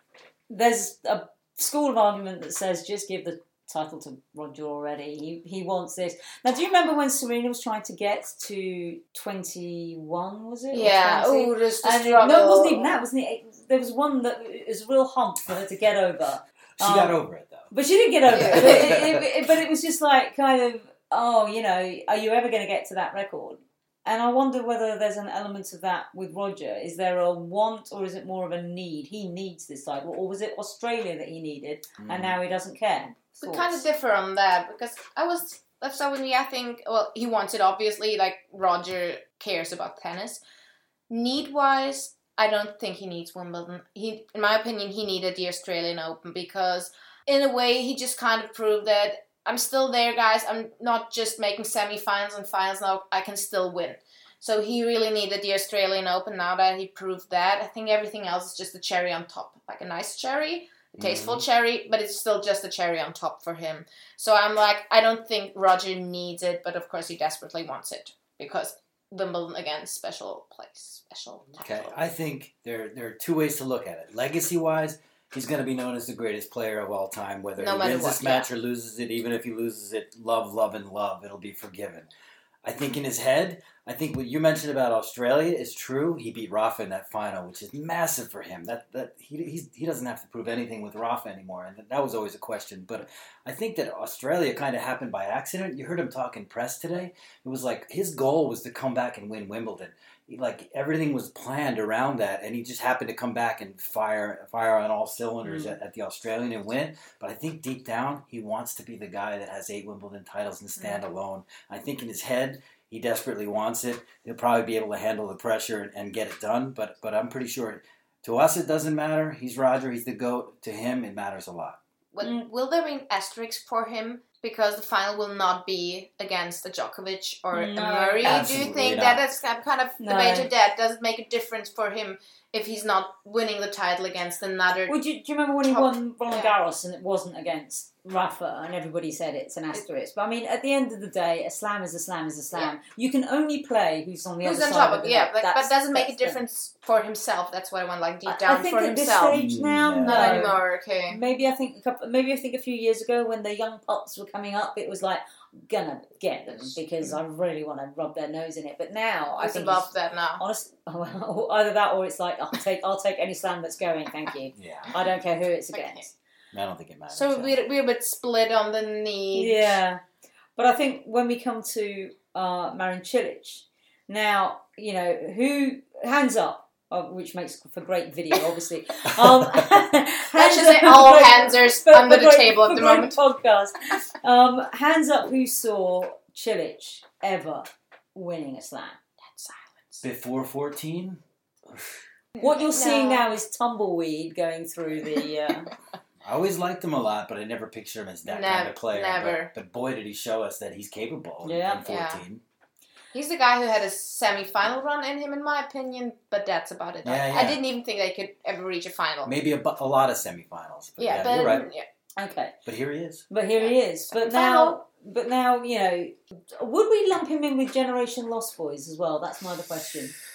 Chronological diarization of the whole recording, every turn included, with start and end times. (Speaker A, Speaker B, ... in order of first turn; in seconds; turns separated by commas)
Speaker A: 0.5-17.2, Speaker B: 10.7-13.0, Speaker C: 16.8-17.7, Speaker A: 17.7-33.8, Speaker C: 18.3-19.2, Speaker B: 18.3-19.0, Speaker C: 32.0-32.4, Speaker B: 33.4-40.4, Speaker B: 41.1-71.9, Speaker C: 61.0-61.4, Speaker C: 71.6-82.1, Speaker B: 77.6-78.5, Speaker C: 82.6-121.8, Speaker A: 105.4-105.7, Speaker B: 122.1-134.9, Speaker A: 127.5-128.5, Speaker C: 128.2-129.2, Speaker A: 130.0-130.5, Speaker A: 134.9-146.4, Speaker B: 135.6-136.5, Speaker B: 144.4-149.4, Speaker A: 148.2-166.1, Speaker C: 149.3-150.5, Speaker B: 150.0-151.2, Speaker B: 156.5-157.2, Speaker B: 159.4-160.4, Speaker C: 164.5-164.9, Speaker B: 165.7-166.1, Speaker C: 166.5-167.5, Speaker B: 167.1-169.8, Speaker A: 169.3-170.0, Speaker A: 170.6-189.0, Speaker C: 179.2-179.6, Speaker B: 180.3-183.2, Speaker B: 189.3-190.0, Speaker C: 190.0-192.0, Speaker B: 192.3-193.3, Speaker A: 192.4-195.7, Speaker C: 196.2-202.4, Speaker B: 198.2-199.5, Speaker A: 201.4-201.8, Speaker B: 201.8-202.2, Speaker B: 203.1-209.3, Speaker C: 207.0-207.6, Speaker C: 209.2-211.7, Speaker B: 211.0-211.8, Speaker A: 212.2-212.6, Speaker C: 212.7-213.2, Speaker A: 213.3-220.1, Speaker B: 213.6-214.8